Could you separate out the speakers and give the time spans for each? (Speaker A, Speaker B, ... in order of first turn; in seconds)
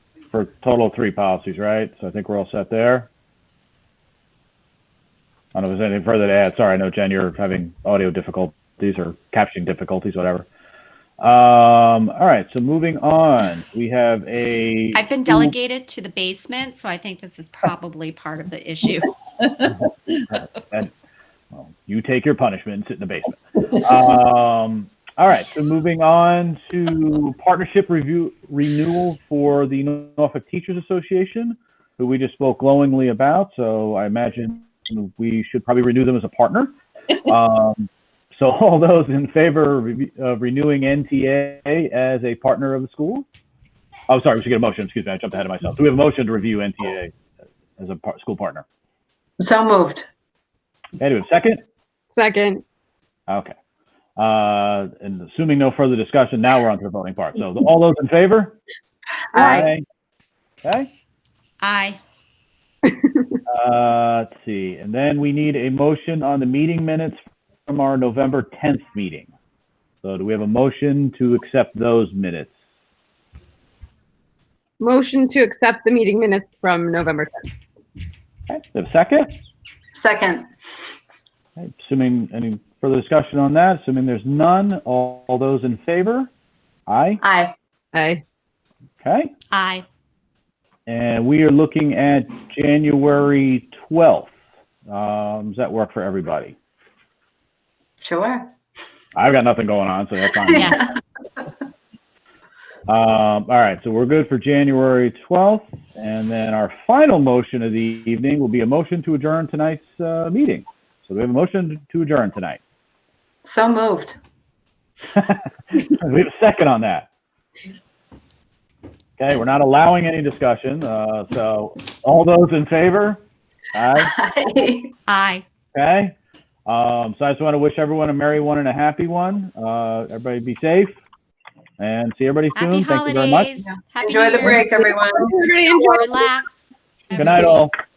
Speaker A: 0.3-3.1, 5.5-10.5, 11.2-15.5, 20.3-20.9, 21.5-43.3, 44.1-47.1, 47.8-48.6, 51.0-51.6, 53.3-53.5, 54.2-58.6, 59.3-59.8, 60.6-60.9, 63.5-69.3, 70.0-72.5, 78.5-79.3, 81.6-86.3, 86.9-87.2, 89.0-89.3, 90.9-94.3, 94.9-96.6, 99.2-100.9, 102.9-112.6, 115.1-117.1, 119.2-124.1, 125.7-126.2, 126.7-131.0, 131.8-133.5, 137.2-137.7
Speaker B: 14.9-19.2, 61.6-62.0, 89.5-89.8, 100.5-100.9, 125.1-125.5, 132.6-134.7, 135.7-137.7
Speaker C: 49.4-50.1, 59.3-59.7, 79.9-80.5, 87.2-87.5, 98.0-98.5, 100.4-100.9, 113.5-114.2, 124.0-124.9, 133.6-135.4
Speaker D: 52.1-52.6, 59.4-59.7, 74.8-77.5, 87.9-88.2, 134.7-136.3